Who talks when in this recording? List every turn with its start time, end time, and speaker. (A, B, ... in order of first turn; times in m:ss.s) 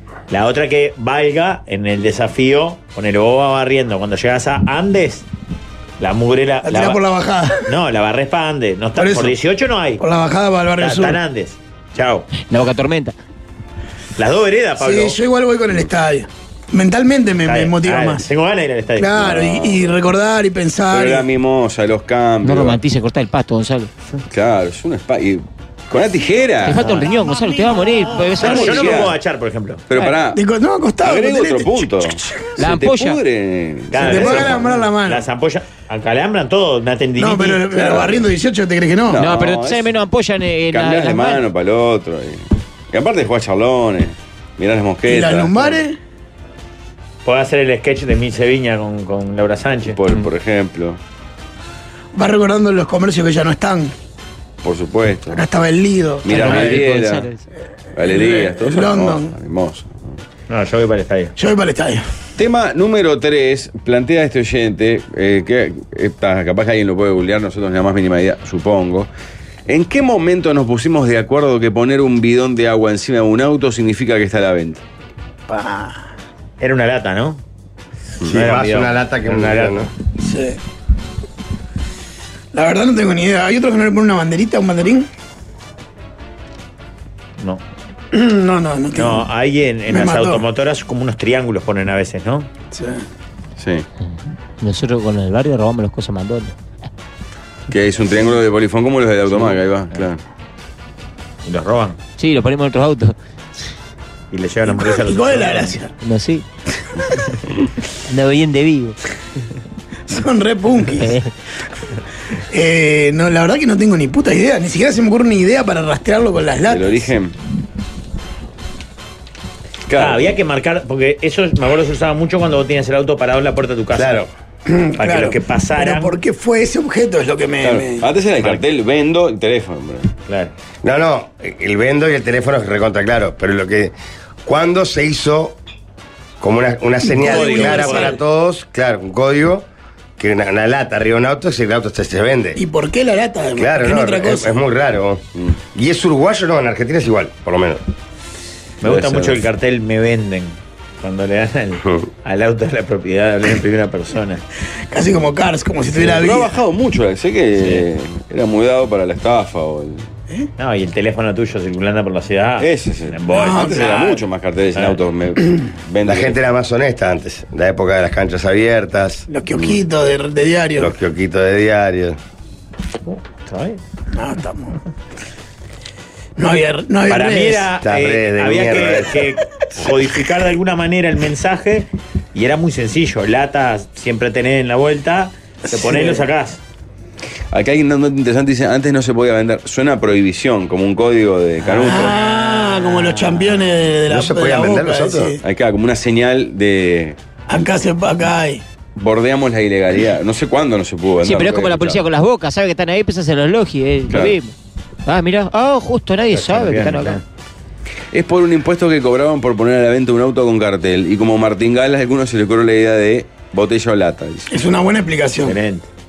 0:00.3-0:05.3 A
0:06.0-0:07.0 A
0:06.6-0:07.8 B
0:07.6-0:10.0 A
0:09.0-0:09.4 B
0:10.0-0:11.2 B
0:10.8-0:12.3 A
0:12.4-0:13.1 C
0:14.2-0:15.2 A
0:14.8-0:18.2 B
0:17.4-0:19.3 A
0:19.0-0:21.3 B
0:19.2-0:20.0 D
0:20.9-0:22.8 D
0:22.4-0:23.9 C
0:24.3-0:27.0 D
0:26.6-0:29.1 C
0:28.4-0:29.2 D
0:28.4-0:29.8 A
0:29.9-0:30.4 D
0:30.3-0:32.6 B
0:31.0-0:34.8 D
0:32.6-0:33.2 C
0:33.9-0:38.2 A
0:34.0-0:35.2 B
0:37.2-0:39.2 B
0:37.9-0:38.2 D
0:39.1-0:39.9 D
0:39.2-0:41.4 C
0:40.7-0:45.8 D
0:45.1-0:46.0 B
0:47.2-0:50.0 A
0:49.9-0:51.0 D
0:52.2-0:53.9 B
0:54.6-0:55.5 D
0:55.3-0:56.8 B
0:56.2-0:57.3 D
0:56.3-0:57.4 C
0:57.9-1:00.2 D
0:58.0-0:59.3 B
1:00.5-1:01.4 A
1:01.4-1:02.0 B
1:02.4-1:09.1 D
1:09.7-1:14.8 D
1:15.5-1:16.0 B
1:16.6-1:17.4 A
1:18.2-1:19.9 A
1:18.2-1:19.9 E
1:20.2-1:20.6 B
1:22.5-1:25.1 B
1:28.1-1:29.3 B
1:29.0-1:32.5 A
1:29.9-1:30.4 B
1:32.7-1:33.0 B
1:33.6-1:33.9 D
1:34.6-1:36.6 C
1:37.7-1:40.2 D
1:41.4-1:42.0 A
1:42.2-1:43.2 C
1:44.3-1:45.8 A
1:44.7-1:45.9 B
1:46.0-1:46.4 C
1:48.1-1:49.0 C
1:50.1-1:51.2 B
1:51.0-1:51.3 C
1:52.5-1:57.1 B
1:56.6-1:57.4 D
1:59.9-2:00.4 D
2:00.0-2:04.2 A
2:03.9-2:04.3 E
2:04.7-2:08.1 B
2:05.0-2:06.2 A
2:07.6-2:10.1 D
2:10.3-2:10.5 A
2:10.8-2:13.9 E
2:14.4-2:15.6 E
2:16.4-2:19.7 E
2:17.1-2:18.2 B
2:17.2-2:18.2 A
2:20.2-2:22.6 E
2:22.6-2:24.5 B
2:23.6-2:27.8 E
2:28.8-2:34.4 A
2:28.8-2:29.4 D
2:34.9-2:36.5 B
2:35.9-2:40.1 D
2:40.6-2:44.2 A
2:42.6-2:46.4 D
2:43.3-2:44.2 B
2:46.0-2:49.3 E
2:49.3-2:50.9 B
2:49.5-2:49.8 D
2:50.8-2:52.2 E
2:53.1-2:53.8 A
2:54.1-2:54.8 B
2:56.4-2:57.7 B
2:57.1-3:06.6 A
2:57.8-2:59.3 E
3:05.7-3:06.2 B
3:07.5-3:12.2 D
3:11.7-3:15.4 B
3:12.2-3:13.2 A
3:14.1-3:15.4 E
3:15.4-3:17.2 D
3:17.5-3:18.6 B
3:19.0-3:22.0 D
3:21.2-3:24.5 C
3:24.1-3:24.4 D
3:25.1-3:27.2 C
3:26.3-3:27.2 A
3:28.1-3:34.6 D
3:34.5-3:35.6 B
3:35.4-3:35.9 A